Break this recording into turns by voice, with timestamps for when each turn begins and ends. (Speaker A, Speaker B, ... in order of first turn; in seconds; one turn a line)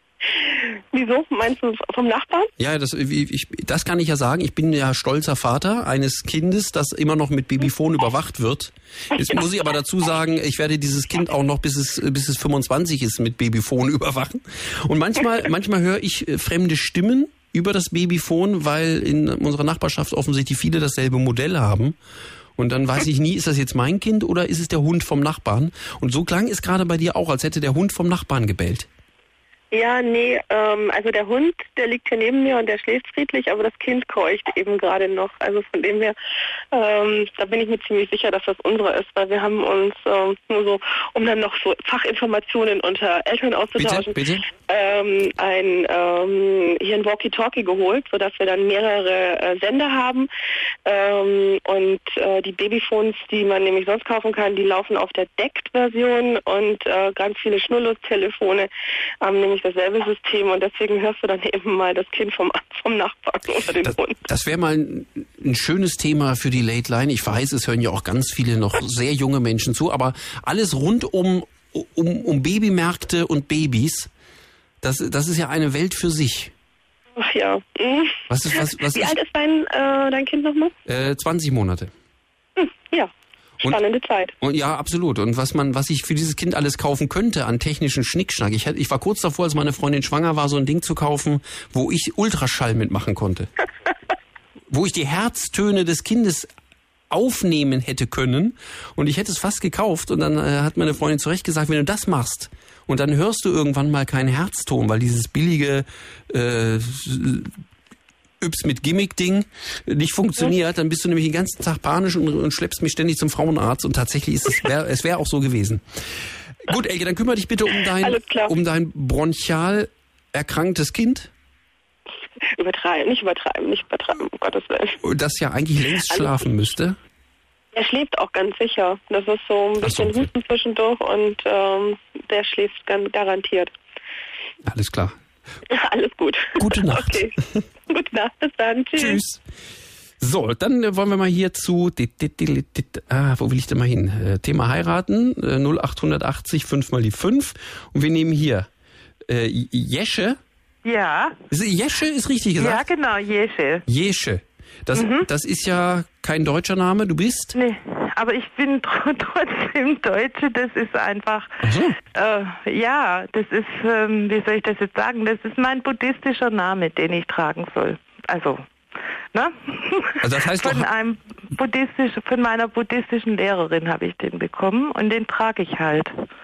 Speaker A: 0.5-2.5
Speaker B: 2.6-22.0
Speaker B: 22.6-28.9
Speaker A: 29.7-36.1
Speaker A: 36.7-50.3
Speaker B: 43.8-44.4
Speaker A: 50.9-58.7
Speaker A: 59.2-64.2
Speaker B: 63.8-74.1
Speaker B: 74.8-76.5
Speaker A: 77.2-80.7
Speaker B: 78.3-79.2
Speaker B: 80.8-81.9
Speaker A: 82.6-84.3
Speaker B: 84.4-93.5
Speaker B: 94.7-96.5
Speaker B: 97.1-107.5
Speaker B: 108.4-115.8
Speaker B: 116.6-121.3
Speaker A: 118.0-118.5
Speaker A: 122.5-125.0
Speaker B: 125.0-127.0
Speaker A: 125.9-126.4
Speaker A: 127.7-133.7
Speaker B: 129.8-130.3
Speaker B: 134.6-135.2
Speaker A: 135.7-137.3
Speaker B: 136.6-137.3
Speaker A: 137.9-139.2
Speaker B: 138.9-139.4
Speaker B: 140.2-148.7
Speaker B: 149.3-150.4
Speaker C: 150.8-151.4
Speaker B: 151.5-152.8
Speaker C: 152.6-153.8
Speaker B: 153.9-157.5
Speaker C: 154.9-155.3
Speaker C: 157.5-161.5
Speaker B: 161.6-162.0
Speaker C: 162.1-168.6
Speaker C: 169.3-176.1
Speaker B: 170.2-170.8